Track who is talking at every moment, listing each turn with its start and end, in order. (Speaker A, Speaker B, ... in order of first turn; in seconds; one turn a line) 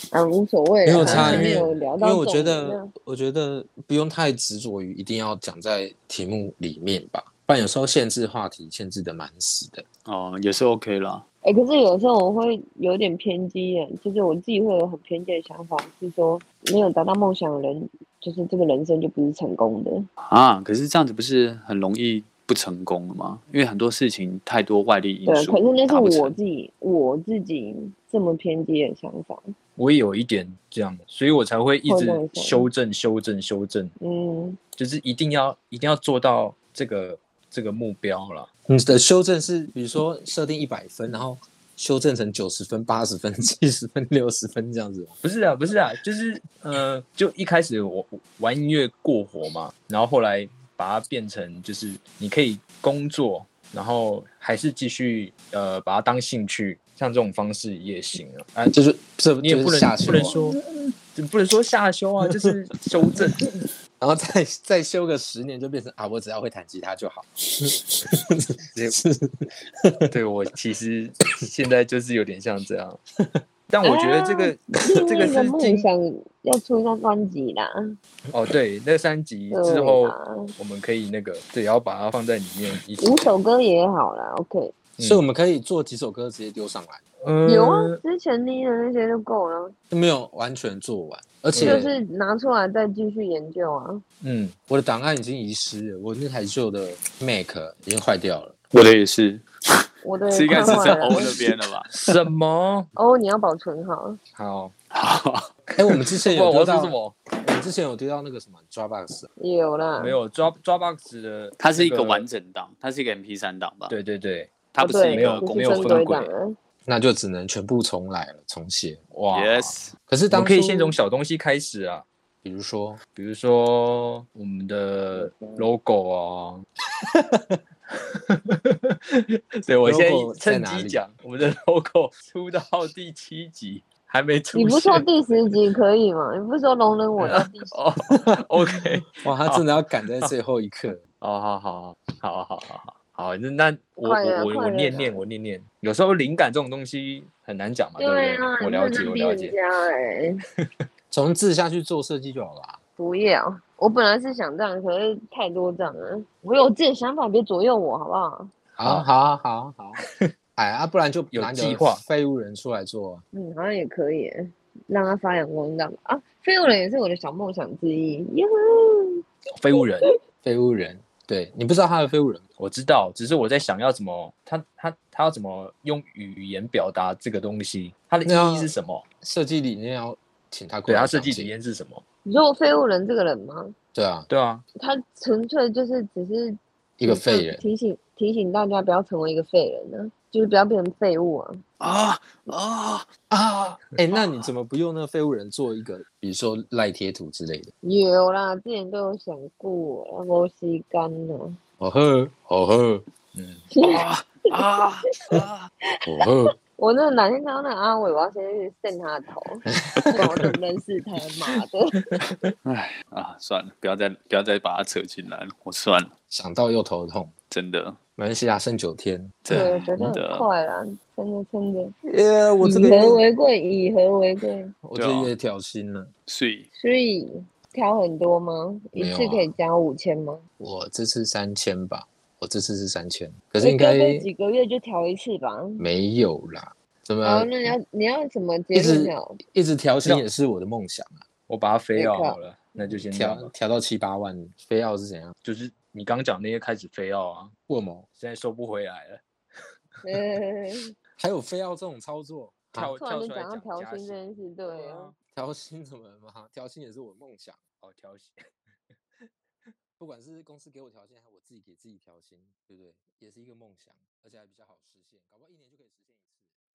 Speaker A: 0.1-2.9
Speaker B: 0.8-9.8
Speaker C: 1.0-1.6
Speaker D: 10.1-11.2
Speaker A: 11.4-20.1
Speaker D: 20.3-26.4
Speaker A: 25.3-29.4
Speaker C: 29.8-33.9
Speaker A: 31.9-32.7
Speaker A: 34.0-34.6
Speaker C: 34.8-38.5
Speaker B: 38.7-45.1
Speaker C: 45.2-58.8
Speaker B: 58.7-60.4
Speaker C: 59.4-63.7
Speaker B: 64.0-70.1
Speaker C: 70.1-73.0
Speaker C: 73.7-75.9
Speaker A: 73.8-77.7
Speaker C: 78.3-83.2
Speaker A: 79.5-80.5
Speaker A: 83.0-84.8
Speaker B: 85.0-87.0
Speaker C: 87.2-88.0
Speaker A: 87.5-89.7
Speaker B: 89.9-91.9
Speaker C: 91.5-92.0
Speaker A: 91.6-94.0
Speaker C: 94.2-94.6
Speaker B: 94.7-98.5
Speaker D: 98.7-102.1
Speaker A: 100.0-101.4
Speaker C: 100.5-101.3
Speaker C: 101.9-102.9
Speaker A: 103.0-104.2
Speaker C: 104.4-104.7
Speaker D: 104.9-105.5
Speaker B: 105.8-109.3
Speaker C: 106.2-107.2
Speaker A: 109.4-110.2
Speaker C: 110.0-112.2
Speaker D: 111.6-114.0
Speaker C: 113.9-116.3
Speaker D: 114.7-116.1
Speaker A: 114.8-116.6
Speaker B: 116.9-119.0
Speaker C: 119.1-119.7
Speaker D: 119.3-119.9
Speaker B: 120.1-121.0
Speaker C: 120.3-122.1
Speaker B: 122.4-123.0
Speaker C: 123.2-126.6
Speaker A: 125.2-125.7
Speaker C: 127.9-135.1
Speaker B: 129.8-131.0
Speaker A: 134.5-137.7
Speaker C: 137.2-139.7
Speaker B: 139.1-141.0
Speaker C: 141.0-149.6
Speaker A: 144.0-145.2
Speaker A: 148.0-150.4
Speaker B: 151.1-152.8
Speaker A: 153.0-158.5
Speaker B: 158.8-160.0
Speaker B: 160.6-163.2
Speaker C: 161.3-162.0
Speaker A: 163.3-169.2
Speaker C: 169.6-170.1
Speaker B: 170.4-172.4
Speaker C: 172.6-179.1
Speaker B: 178.3-181.5
Speaker C: 180.9-182.0
Speaker A: 182.2-183.8
Speaker B: 183.9-184.3
Speaker C: 184.3-184.6
Speaker A: 184.8-191.6
Speaker B: 187.0-187.6
Speaker D: 191.8-193.1
Speaker B: 193.3-197.7
Speaker A: 197.8-201.6
Speaker B: 201.8-203.0
Speaker C: 203.3-203.6
Speaker A: 203.7-204.1
Speaker D: 203.8-205.7
Speaker B: 206.1-206.5
Speaker A: 206.8-212.0
Speaker B: 209.9-210.5
Speaker C: 212.2-212.5
Speaker D: 212.7-216.1
Speaker B: 216.3-217.3
Speaker D: 217.5-218.0
Speaker B: 218.2-219.7
Speaker D: 219.4-220.5
Speaker A: 219.5-221.9
Speaker B: 222.1-223.2
Speaker A: 222.6-224.7
Speaker C: 222.7-223.1
Speaker B: 224.8-226.1
Speaker D: 225.0-225.3
Speaker D: 226.3-226.7
Speaker A: 226.8-230.4
Speaker B: 229.0-229.5
Speaker B: 230.6-234.3
Speaker A: 233.6-235.8
Speaker B: 235.8-237.5
Speaker A: 237.2-239.4
Speaker B: 238.7-241.2
Speaker C: 241.5-243.5
Speaker A: 241.9-242.4
Speaker B: 242.9-245.3
Speaker C: 245.4-247.5
Speaker B: 247.7-248.1
Speaker C: 248.1-249.2
Speaker A: 250.0-250.9
Speaker B: 251.2-252.9
Speaker C: 252.8-255.1
Speaker A: 252.9-255.1
Speaker B: 255.3-257.6
Speaker C: 257.8-258.4
Speaker B: 260.0-266.6